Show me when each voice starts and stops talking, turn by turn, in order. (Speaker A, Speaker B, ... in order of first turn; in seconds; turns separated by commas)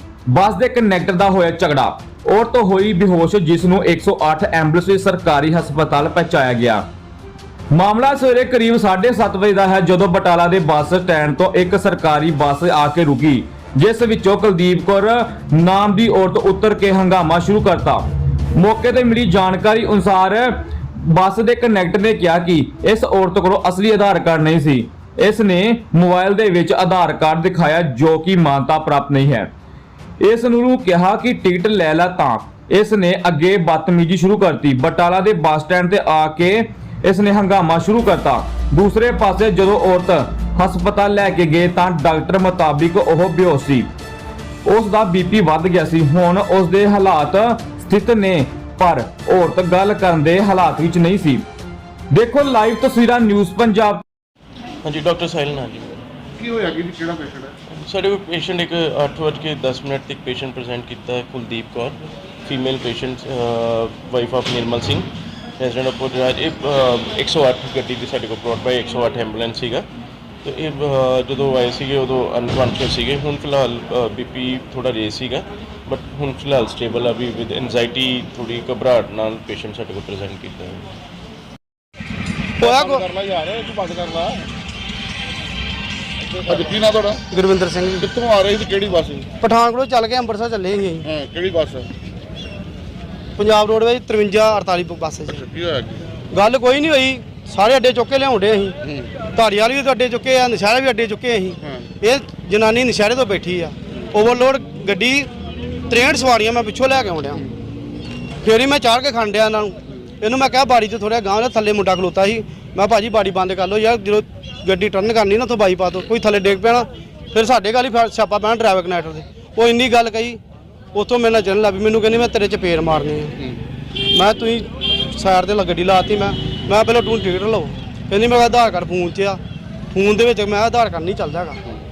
Speaker A: 0.3-6.8, Speaker A: 7.7-18.0, Speaker A: 18.6-29.5, Speaker A: 30.2-43.9, Speaker A: 44.7-51.4, Speaker A: 52.1-54.0, Speaker B: 54.8-56.0, Speaker C: 56.4-57.5, Speaker B: 57.7-65.1, Speaker B: 65.6-69.9, Speaker B: 70.4-80.9, Speaker D: 82.6-83.1, Speaker C: 82.6-84.5, Speaker C: 86.3-87.2, Speaker D: 86.5-86.8, Speaker D: 87.3-88.1, Speaker C: 88.1-89.3, Speaker D: 89.4-91.1, Speaker C: 91.1-91.9, Speaker D: 93.4-95.5, Speaker C: 95.4-96.0, Speaker D: 96.3-98.8, Speaker D: 99.3-105.3, Speaker D: 105.9-107.5, Speaker D: 108.4-120.4, Speaker D: 120.9-123.4, Speaker D: 124.1-129.4, Speaker D: 129.9-131.6